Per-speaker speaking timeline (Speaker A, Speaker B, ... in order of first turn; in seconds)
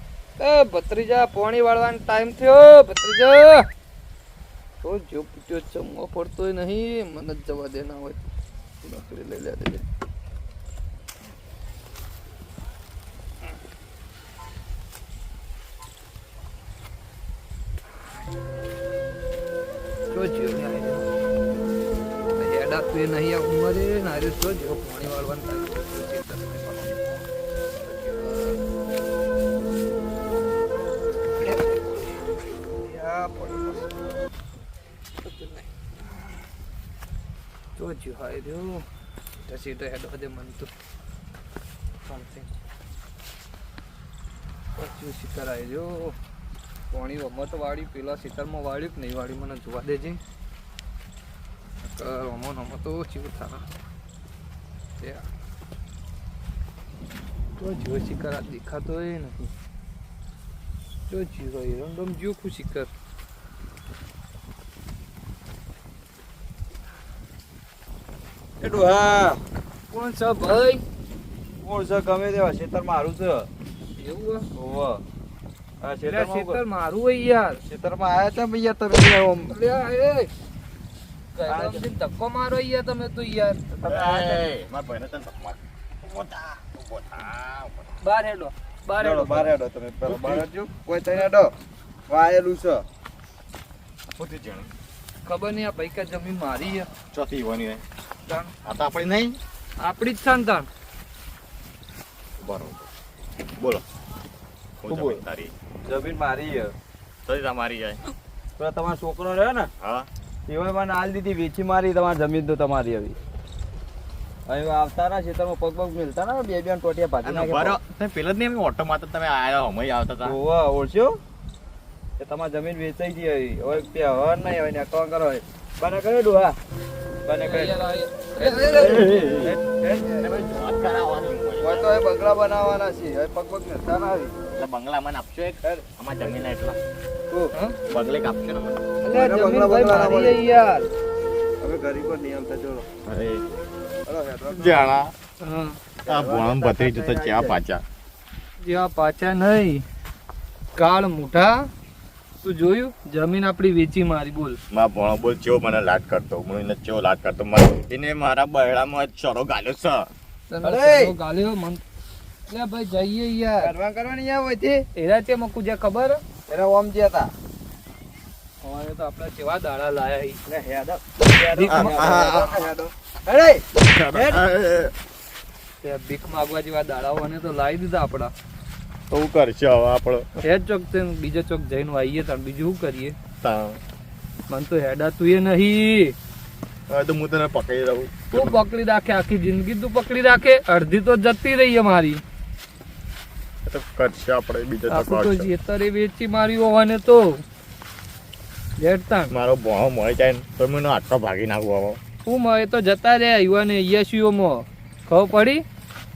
Speaker A: 0.4-3.7, 4.8-8.2, 8.8-9.8, 20.1-21.1, 22.4-27.0, 27.8-28.6, 31.4-32.0, 32.8-33.9, 35.2-35.7, 37.8-38.9, 39.5-40.7, 42.0-42.5, 44.8-46.1, 46.9-50.2, 51.8-53.6, 55.0-55.2, 57.6-59.5, 61.1-62.9, 69.9-70.8, 74.0-74.4, 76.0-77.6, 79.5-80.3, 81.3-83.6, 88.0-89.5, 90.0-90.4, 95.2-96.9, 98.3-98.5, 99.8-100.7, 127.4-129.1, 137.5-137.8, 139.0-140.9, 145.4-145.8, 148.6-149.8, 150.8-151.7, 152.4-154.6, 160.5-161.8, 162.5-163.7, 164.9-166.2, 168.6-170.4, 171.5-172.3, 175.8-178.3, 180.4-183.2, 184.5-186.1, 188.3-192.2, 194.9-197.4, 198.8-199.3, 202.2-205.6
Speaker B: 68.6-69.4, 71.6-73.5, 74.5-75.0, 75.8-76.6, 77.7-79.6, 81.5-81.8, 83.7-84.4, 89.0-91.5, 92.1-92.8, 104.9-105.2, 105.8-106.7, 108.6-109.7, 110.5-113.2, 114.5-117.8, 120.2-121.2, 122.2-126.6, 127.2-127.8, 128.4-130.3, 131.6-134.3, 135.6-136.4, 137.3-137.5, 139.1-140.4, 141.6-142.9, 144.1-144.9, 146.0-147.6, 160.6-161.1, 163.6-164.8, 166.5-167.3, 170.5-174.4
Speaker C: 83.8-88.0, 94.2-94.7, 97.1-97.8, 98.6-99.4, 102.4-102.9, 103.6-103.8, 104.8-105.5, 107.2-108.0, 109.8-110.1, 117.2-120.3, 128.8-129.5, 130.2-132.0, 134.5-136.8, 137.9-138.8, 143.1-143.4, 144.5-145.1, 146.1-147.8, 154.7-160.1, 171.7-172.6, 173.8-174.9, 179.1-180.2, 183.4-183.8, 186.9-188.5, 193.7-195.5, 199.3-202.0